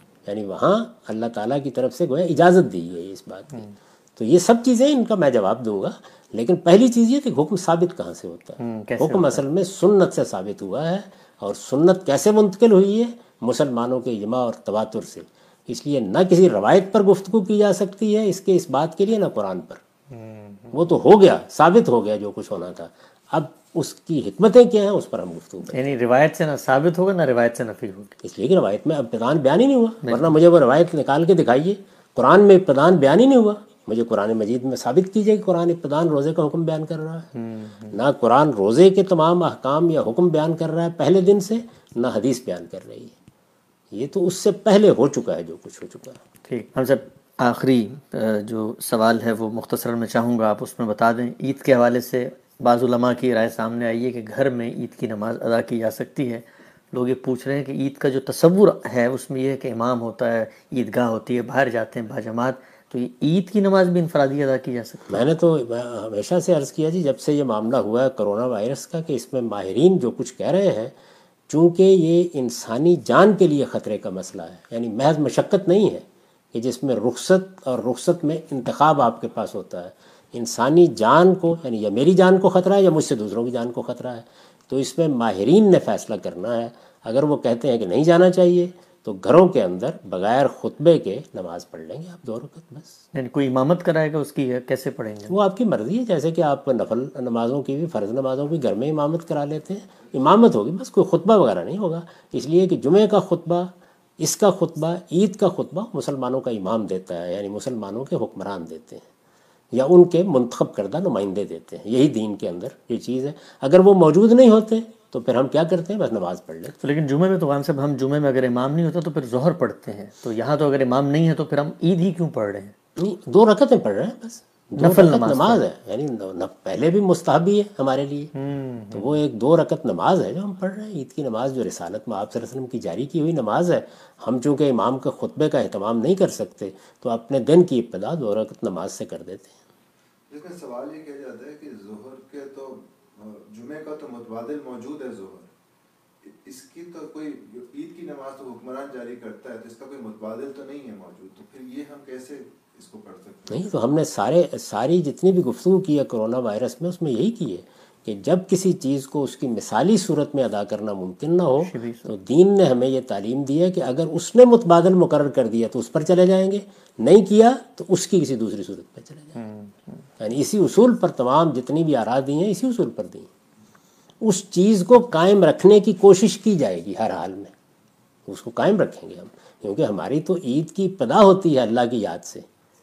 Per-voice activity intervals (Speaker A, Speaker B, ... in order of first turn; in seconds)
Speaker A: 0.3-19.8, 20.7-25.8, 28.2-37.3, 37.9-43.1, 43.9-46.2, 65.1-70.9, 71.5-93.0, 95.3-109.0, 109.7-116.8, 123.0-128.3, 128.9-139.6, 153.5-169.4, 170.2-173.3, 174.2-177.5, 178.3-182.5
Speaker B: 8.6-9.4, 20.1-20.9, 25.7-28.2, 30.0-30.3, 37.4-38.0, 46.5-65.2, 93.1-95.4, 116.8-122.7, 124.8-125.6, 128.3-129.2, 161.6-162.1, 169.4-170.0
Speaker C: 140.3-145.5, 146.2-153.7